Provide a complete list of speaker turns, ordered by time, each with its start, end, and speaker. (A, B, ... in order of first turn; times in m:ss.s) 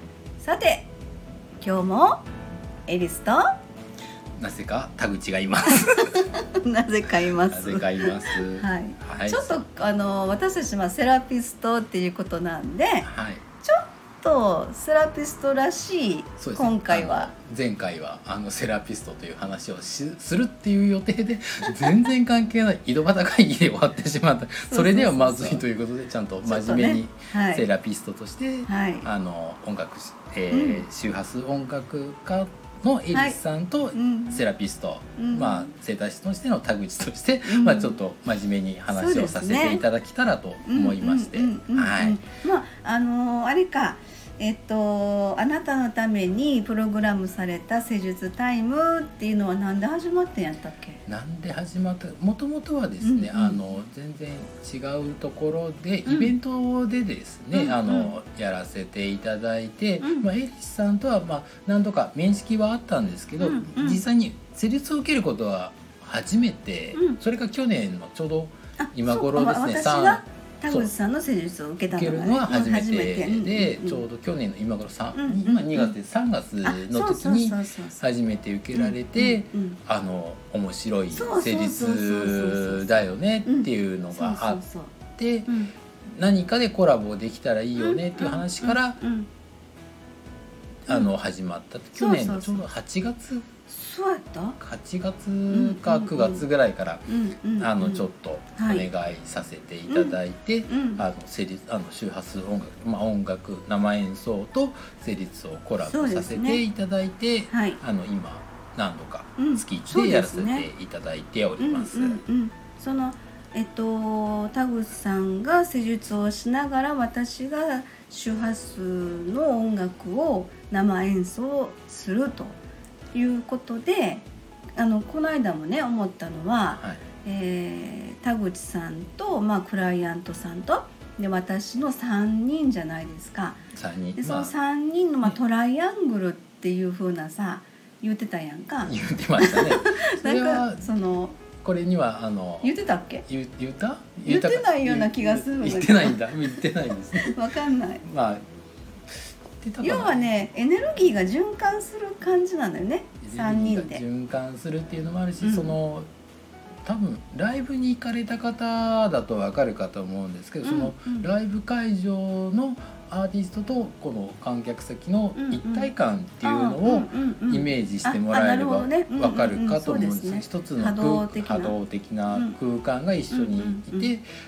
0:00.4-0:00.9 A
0:01.6-0:02.2 A
0:02.9-0:03.6 A
0:04.4-0:06.3 B
0:05.7-0:13.1 A
0:07.5-0:09.5 B
0:13.0-0:13.4 B
0:13.6-0:17.3 A
0:16.4-0:42.2 B
0:24.7-0:25.6 A
0:26.4-0:27.7 A
0:28.7-0:29.1 A
0:30.5-0:30.8 A
0:33.1-0:33.4 A
0:33.9-0:34.4 A
0:35.2-0:35.7 A
0:37.4-0:38.0 A
0:38.9-0:39.8 A
0:40.7-0:51.0 A
0:51.1-1:10.9 B
0:53.0-0:53.6 A
0:56.1-0:56.3 A
0:57.5-0:58.1 A
1:00.0-1:00.3 A
1:03.4-1:04.0 A
1:06.9-1:07.2 A
1:08.8-1:14.0 A
1:11.9-1:24.6 B
1:15.1-1:16.0 A
1:16.6-1:18.0 A
1:18.7-1:19.8 A
1:21.1-1:24.9 A
1:25.2-1:25.6 B
1:26.1-1:29.0 B
1:27.8-1:29.3 A
1:30.9-1:33.5 B
1:31.9-1:32.6 A
1:33.7-1:34.6 A
1:34.6-1:37.1 B
1:35.5-1:36.4 A
1:37.1-1:38.9 A
1:37.6-1:52.2 B
1:39.9-1:41.0 A
1:45.8-1:46.6 A
1:47.5-1:47.8 A
1:49.4-1:50.7 A
1:51.6-2:02.6 A
2:03.1-2:13.6 A
2:06.8-2:07.0 B
2:13.7-2:14.5 B
2:14.2-2:21.4 A
2:18.8-2:20.9 B
2:21.6-2:22.7 B
2:22.6-2:23.2 A
2:23.3-2:27.4 B
2:24.3-2:26.6 A
2:27.2-2:28.0 A
2:28.0-2:28.4 B
2:29.6-2:30.3 B
2:29.8-2:34.0 A
2:33.2-2:36.1 B
2:35.4-2:35.8 A
2:36.8-2:54.2 B
2:40.6-2:41.3 A
2:45.4-2:45.9 A
2:46.4-2:51.8 A
2:52.3-2:52.6 A
2:53.3-2:54.1 A